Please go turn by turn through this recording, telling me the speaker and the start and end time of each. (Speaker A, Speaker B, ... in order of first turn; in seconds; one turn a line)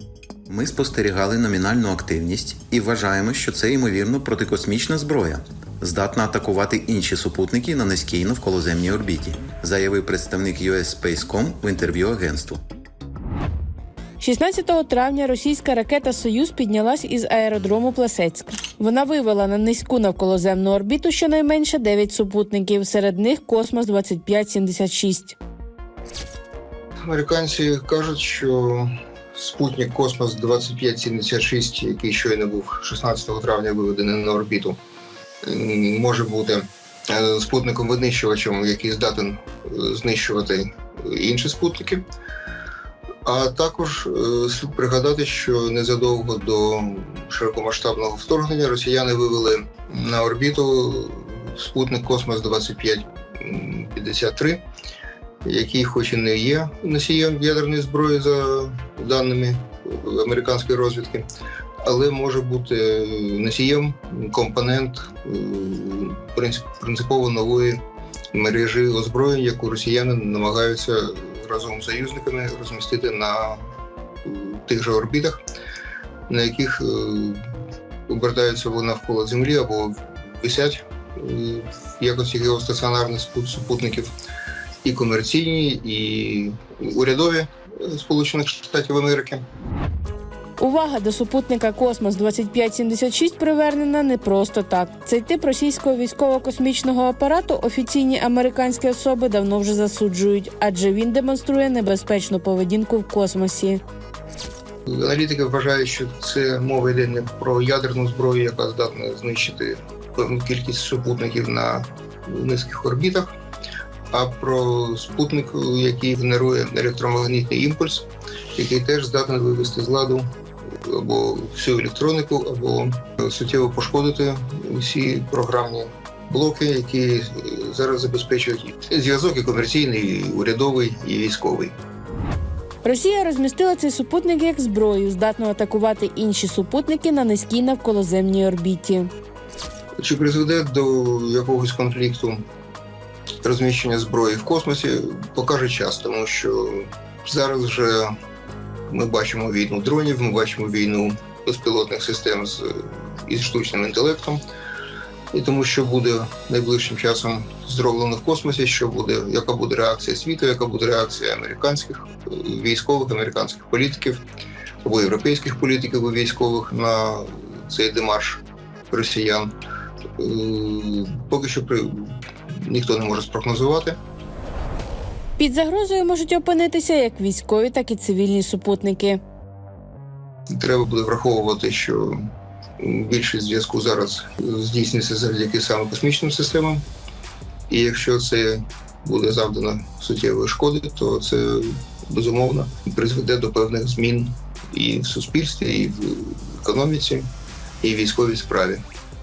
Speaker A: 0.5-12.6
Speaker B: 14.2-25.4
Speaker C: 27.1-34.8
Speaker C: 35.4-42.0
Speaker C: 43.2-54.6
Speaker C: 55.4-61.2
Speaker C: 61.8-67.8
Speaker C: 68.3-73.6
Speaker C: 74.2-75.4
Speaker C: 76.3-77.4
Speaker C: 78.1-84.1
Speaker C: 84.8-89.4
Speaker B: 90.6-103.8
Speaker C: 104.9-113.3
Speaker C: 114.1-120.3
Speaker C: 120.8-131.8
Speaker B: 132.8-139.1
Speaker C: 140.0-142.4
Speaker C: 143.4-148.2
Speaker C: 148.9-154.4
Speaker C: 155.3-164.2
Speaker C: 164.8-169.5
Speaker C: 170.2-174.0
Speaker B: 175.4-179.2
Speaker C: 180.5-182.2
Speaker C: 182.8-186.8
Speaker C: 187.7-197.3
Speaker C: 197.8-198.8